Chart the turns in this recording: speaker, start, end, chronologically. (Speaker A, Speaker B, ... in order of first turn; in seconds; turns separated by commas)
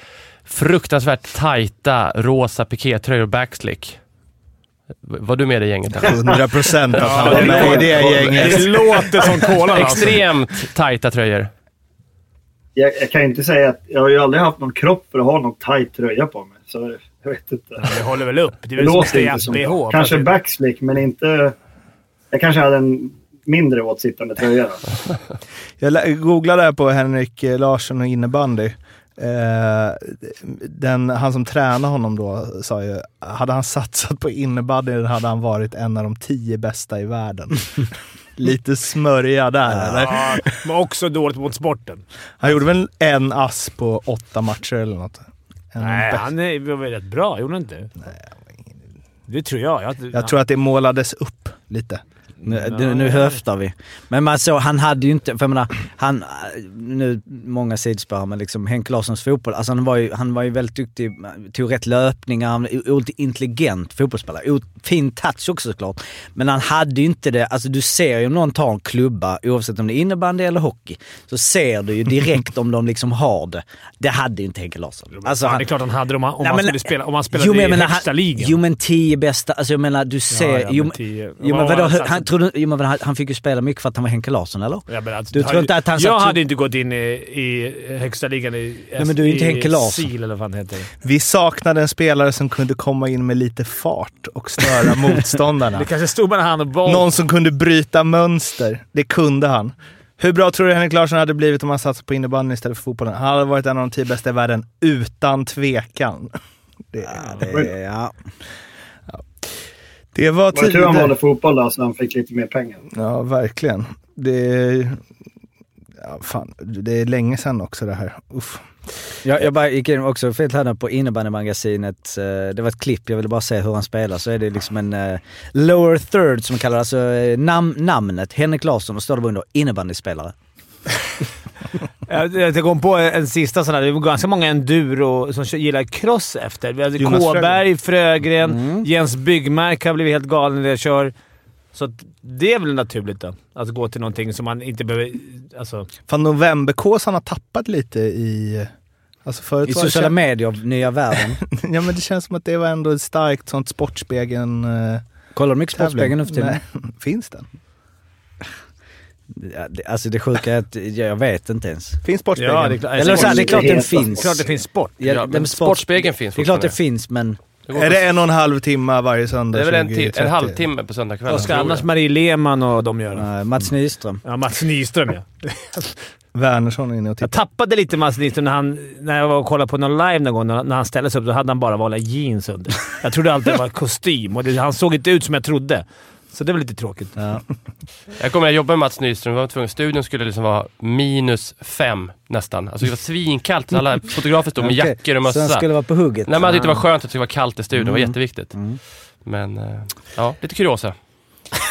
Speaker A: 0.4-4.0, Speaker A: 5.0-6.2, Speaker B: 6.0-9.1, Speaker C: 7.0-10.2, Speaker D: 7.1-8.5, Speaker A: 9.7-11.5, Speaker D: 12.8-17.9, Speaker C: 17.8-20.3, Speaker D: 18.8-21.5, Speaker D: 22.3-24.8, Speaker B: 25.8-40.4, Speaker E: 39.7-40.1, Speaker C: 40.0-42.0, Speaker B: 42.4-46.3, Speaker C: 45.8-47.9, Speaker C: 49.3-50.3, Speaker B: 50.1-52.0, Speaker C: 52.4-53.4, Speaker E: 52.4-75.7, Speaker C: 75.1-78.5, Speaker E: 76.4-86.4, Speaker C: 80.3-82.3, Speaker C: 84.9-90.9, Speaker E: 89.0-90.1, Speaker B: 91.0-95.9, Speaker C: 95.7-97.1, Speaker B: 96.8-106.3, Speaker B: 106.9-107.5, Speaker E: 107.0-108.1, Speaker B: 110.1-111.1, Speaker D: 110.5-112.8, Speaker B: 112.9-115.0, Speaker B: 116.0-118.7, Speaker E: 119.2-130.3, Speaker C: 132.1-141.1, Speaker B: 137.0-137.6, Speaker E: 138.4-138.9, Speaker C: 141.7-145.9, Speaker B: 146.1-148.7, Speaker B: 149.2-150.2, Speaker E: 149.6-151.4, Speaker B: 151.4-155.0, Speaker E: 155.3-156.6, Speaker B: 155.7-157.5, Speaker E: 159.3-162.0, Speaker B: 162.0-163.0, Speaker C: 162.3-165.0, Speaker E: 162.9-164.3, Speaker D: 163.1-164.3, Speaker E: 165.0-167.4, Speaker A: 165.0-166.8, Speaker A: 167.7-168.0, Speaker B: 167.8-170.6, Speaker A: 169.5-171.9, Speaker C: 171.3-173.3, Speaker E: 173.1-174.2, Speaker C: 174.2-175.9, Speaker B: 176.3-177.4, Speaker C: 177.2-187.2, Speaker E: 187.2-187.4, Speaker A: 188.2-195.6, Speaker E: 194.6-196.8, Speaker A: 196.2-198.6, Speaker E: 197.7-198.8, Speaker A: 199.2-200.9